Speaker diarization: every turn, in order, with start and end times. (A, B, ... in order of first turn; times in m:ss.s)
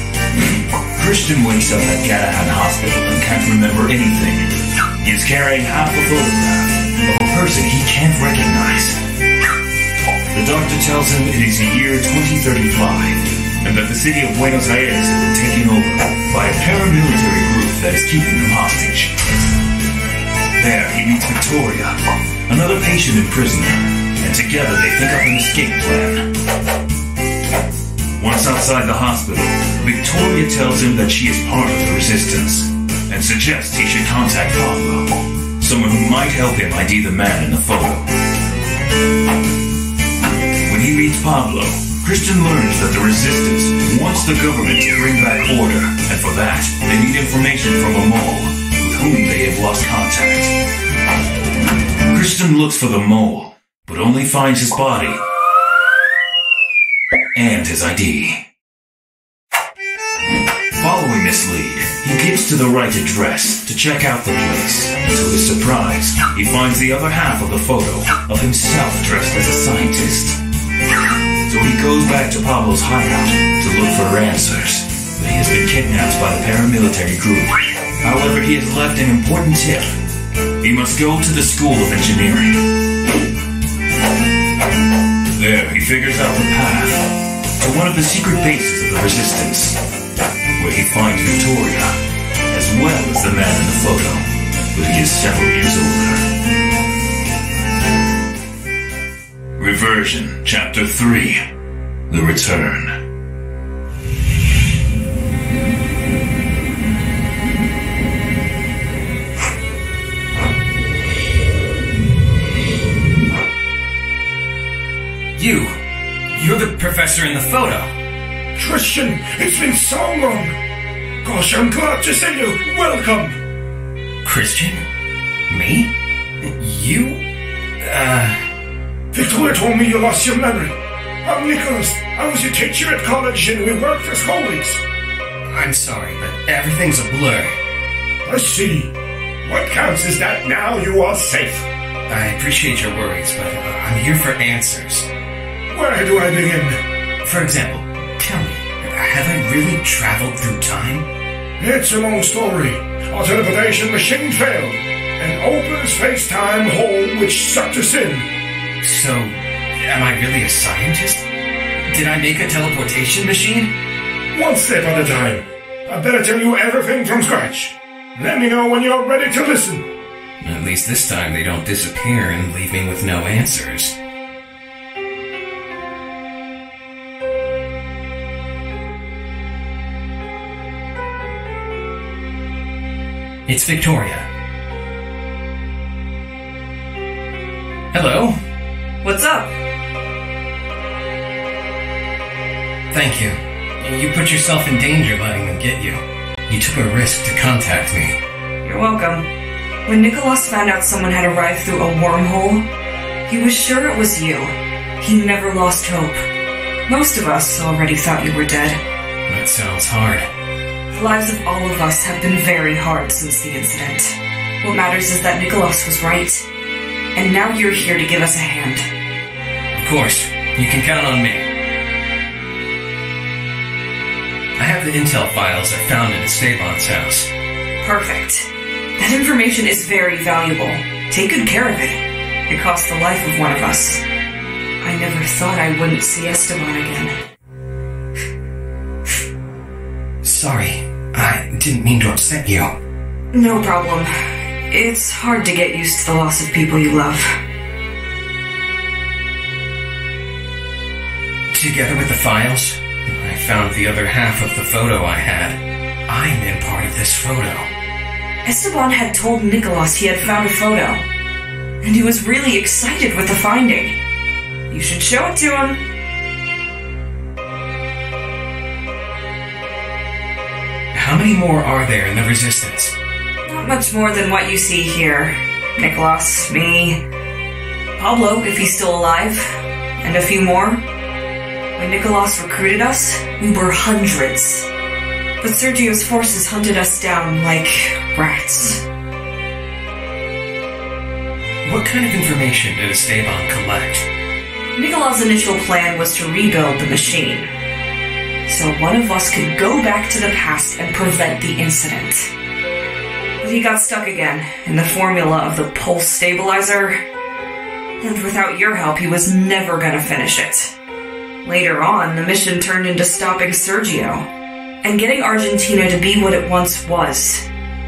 0:01.0-0:09.0 A
0:10.3-0:19.2 A
0:20.6-0:26.3 A
0:28.2-0:38.1 A
0:40.6-0:50.5 A
0:52.0-0:55.2 A
0:57.3-0:58.4 A
1:00.8-1:10.4 A
1:11.4-1:20.0 A
1:20.6-1:22.6 A
1:25.3-1:27.0 A
1:27.6-1:29.8 A
1:30.6-1:31.9 A
1:32.5-1:36.2 A
1:39.6-1:41.4 A
1:42.1-1:43.0 A
1:55.3-1:55.8 B
1:56.3-1:57.9 B
1:58.5-2:00.6 C
2:01.2-2:03.4 C
2:04.2-2:04.8 B
2:05.5-2:05.9 B
2:06.4-2:07.2 B
2:07.8-2:08.5 B
2:09.1-2:14.8 C
2:15.4-2:17.5 B
2:18.2-2:18.9 C
2:19.4-2:21.6 C
2:22.1-2:25.1 B
2:25.7-2:26.8 C
2:27.2-2:31.0 B
2:31.6-2:38.3 C
2:38.8-2:41.2 B
2:41.8-2:43.7 B
2:44.3-2:49.8 C
2:50.4-2:53.9 B
3:03.5-3:04.3 B
3:07.9-3:08.4 B
3:09.0-3:09.5 D
3:12.9-3:18.2 B
3:18.6-3:19.2 D
3:19.8-3:22.6 D
3:23.3-3:26.2 D
3:26.9-3:28.8 D
3:29.3-3:30.3 B
3:30.9-3:36.4 D
3:37.1-3:38.8 D
3:39.7-3:41.5 B
3:44.6-3:47.3 B
3:47.8-3:54.0 D
3:54.8-3:57.1 D
4:00.2-4:02.7 B
4:03.3-4:04.1 D
4:04.7-4:07.3 D
4:11.5-4:17.7 B
4:18.4-4:21.0 D
4:21.8-4:24.0 D
4:24.7-4:25.8 D
4:30.9-4:32.9 B
4:33.4-4:37.0 D
4:38.0-4:40.8 D
4:41.8-4:44.7 D
4:45.4-4:48.8 D
4:51.6-4:54.0 B
4:54.8-4:57.5 D
4:58.5-5:02.3 D
5:03.4-5:07.0 D
5:08.0-5:10.7 D
5:11.4-5:14.2 D
5:14.8-5:17.4 D